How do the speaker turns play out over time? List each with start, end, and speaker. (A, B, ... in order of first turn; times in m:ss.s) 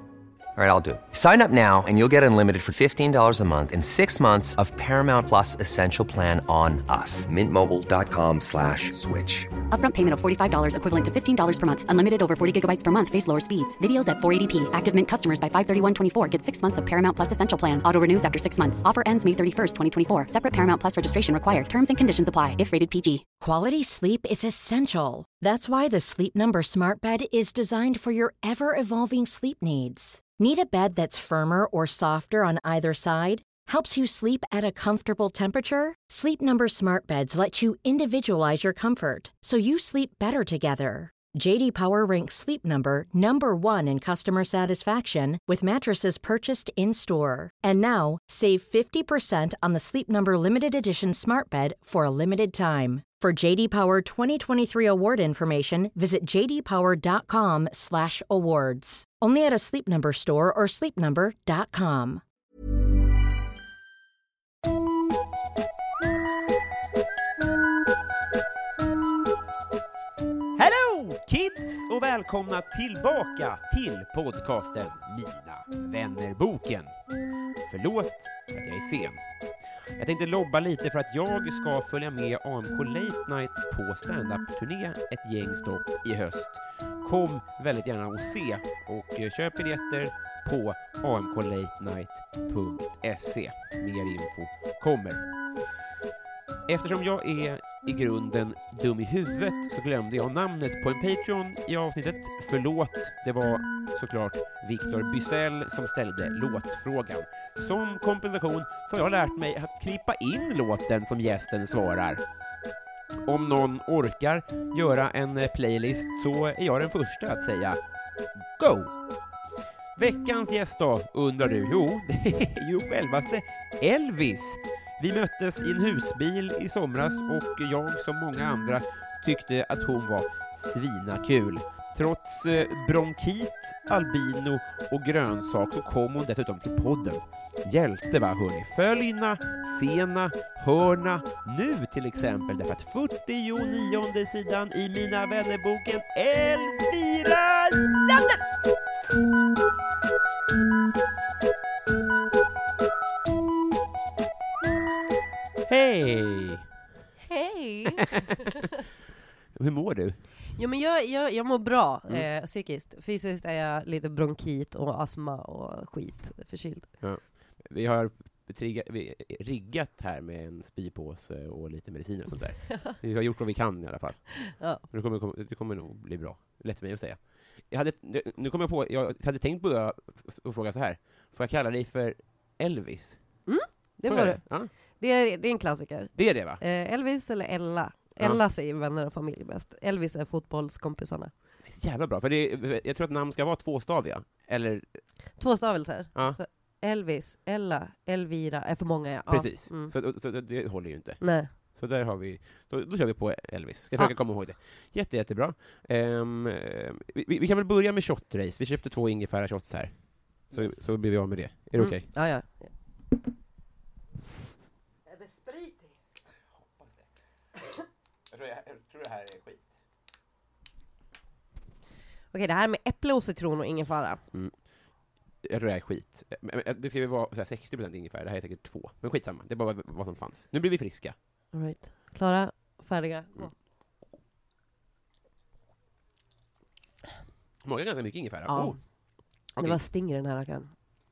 0:00.6-0:09.5 A
0:09.7-0:23.2 B
0:23.4-1:02.2 C
1:10.6-1:16.9 D
1:17.6-1:19.2 D
1:20.0-1:35.2 D
1:36.7-1:52.2 D
1:53.2-1:57.8 D
1:58.6-1:59.0 D
2:00.0-2:28.3 D
2:35.7-2:36.6 D
2:37.3-2:38.7 E
2:39.5-2:40.3 D
2:40.5-2:46.9 E
2:47.0-3:03.4 D
2:54.5-2:54.8 E
3:03.4-3:11.3 E
3:04.0-3:04.7 D
3:06.1-3:06.6 D
3:11.6-3:15.0 D
3:15.4-3:19.9 E
3:19.3-3:32.1 D
3:21.2-3:21.5 E
3:30.5-3:30.9 E
3:31.8-3:32.7 E
3:35.1-3:35.9 E
3:38.3-3:39.7 D
3:42.3-3:44.2 E
3:44.3-3:44.6 D
3:45.4-3:51.1 D
3:51.5-3:53.5 E
3:57.6-3:58.9 D
3:58.5-4:00.7 E
3:59.5-3:59.8 D